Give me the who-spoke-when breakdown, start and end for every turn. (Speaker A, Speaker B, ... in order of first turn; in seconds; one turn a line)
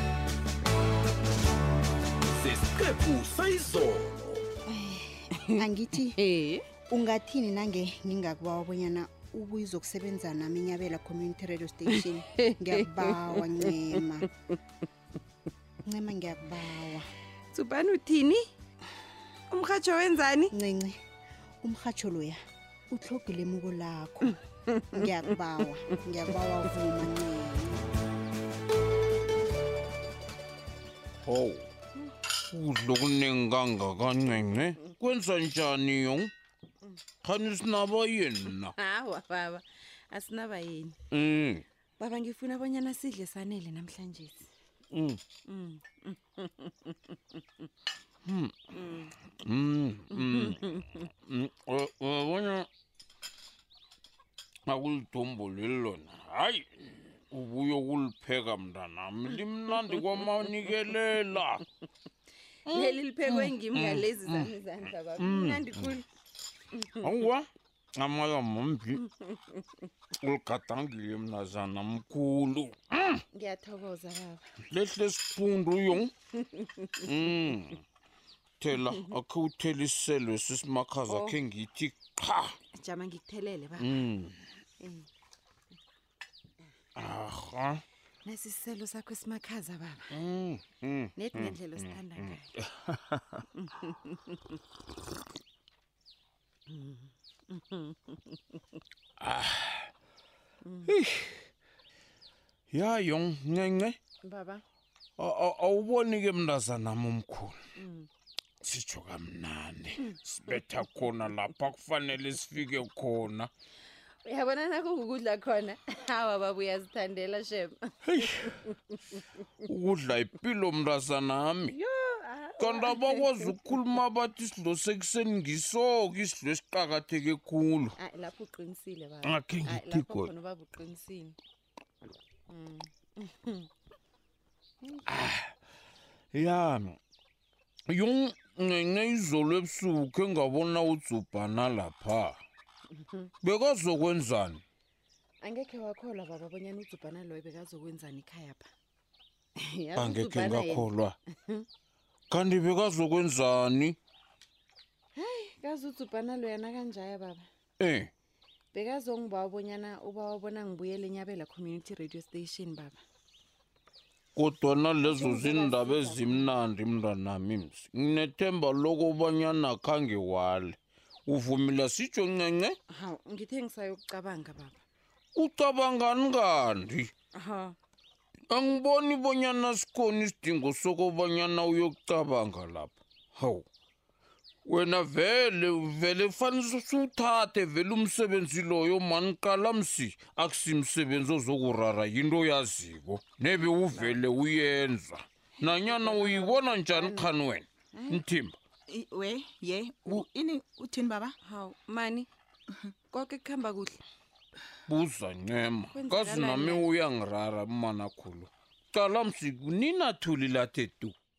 Speaker A: 2.3-4.5
Speaker B: 4.7-6.2
Speaker C: 6.2-6.7
Speaker B: 6.9-14.3
Speaker C: 12.0-13.9
Speaker B: 15.8-17.1
Speaker C: 17.5-18.5
Speaker C: 19.5-20.5
Speaker B: 20.5-21.0
Speaker B: 21.6-22.4
Speaker B: 22.9-24.4
Speaker B: 24.9-27.9
Speaker D: 31.2-31.7
Speaker D: 32.4-36.3
Speaker D: 37.2-38.7
Speaker C: 38.8-41.0
Speaker D: 41.1-41.6
Speaker C: 42.0-44.5
Speaker D: 44.9-45.2
Speaker C: 45.5-47.4
Speaker D: 48.2-48.7
Speaker C: 48.8-49.1
Speaker D: 49.4-52.7
Speaker C: 50.1-50.6
Speaker D: 54.7-61.6
Speaker D: 62.7-64.5
Speaker C: 62.7-66.0
Speaker D: 65.2-66.0
Speaker C: 66.7-67.1
Speaker D: 67.0-69.1
Speaker D: 70.2-73.2
Speaker C: 73.3-74.5
Speaker D: 74.7-76.1
Speaker C: 76.4-77.0
Speaker D: 77.0-77.8
Speaker D: 78.6-82.5
Speaker C: 81.1-81.4
Speaker C: 82.7-84.0
Speaker D: 83.8-84.4
Speaker C: 84.8-85.1
Speaker D: 87.0-87.8
Speaker C: 88.2-90.1
Speaker D: 90.1-93.4
Speaker C: 91.2-92.5
Speaker C: 93.6-94.4
Speaker C: 96.7-98.4
Speaker D: 99.2-99.9
Speaker C: 100.6-100.9
Speaker D: 100.9-101.5
Speaker D: 102.7-104.0
Speaker C: 104.2-104.6
Speaker D: 105.2-107.6
Speaker C: 107.8-108.1
Speaker D: 108.6-113.5
Speaker C: 114.2-118.5
Speaker D: 118.1-118.7
Speaker D: 119.6-121.8
Speaker C: 121.7-123.5
Speaker D: 122.6-128.0
Speaker C: 128.0-131.4
Speaker D: 129.2-130.3
Speaker C: 132.5-133.7
Speaker C: 134.8-135.1
Speaker D: 135.1-135.5
Speaker D: 136.3-137.0
Speaker D: 137.9-142.4
Speaker C: 142.9-143.3
Speaker D: 143.4-144.6
Speaker C: 145.4-148.7
Speaker C: 149.6-150.9
Speaker D: 150.0-151.2
Speaker D: 152.3-154.0
Speaker C: 155.2-157.5
Speaker D: 157.8-158.1
Speaker C: 158.7-163.0
Speaker D: 164.3-172.8
Speaker C: 165.0-166.5
Speaker C: 172.9-174.8
Speaker D: 175.3-177.1
Speaker C: 177.3-177.8
Speaker D: 178.5-183.7
Speaker D: 184.7-198.6
Speaker C: 195.6-197.3
Speaker C: 197.9-198.2
Speaker E: 198.9-201.3
Speaker C: 201.4-202.3
Speaker C: 203.1-204.0
Speaker D: 204.9-211.2
Speaker C: 205.9-206.9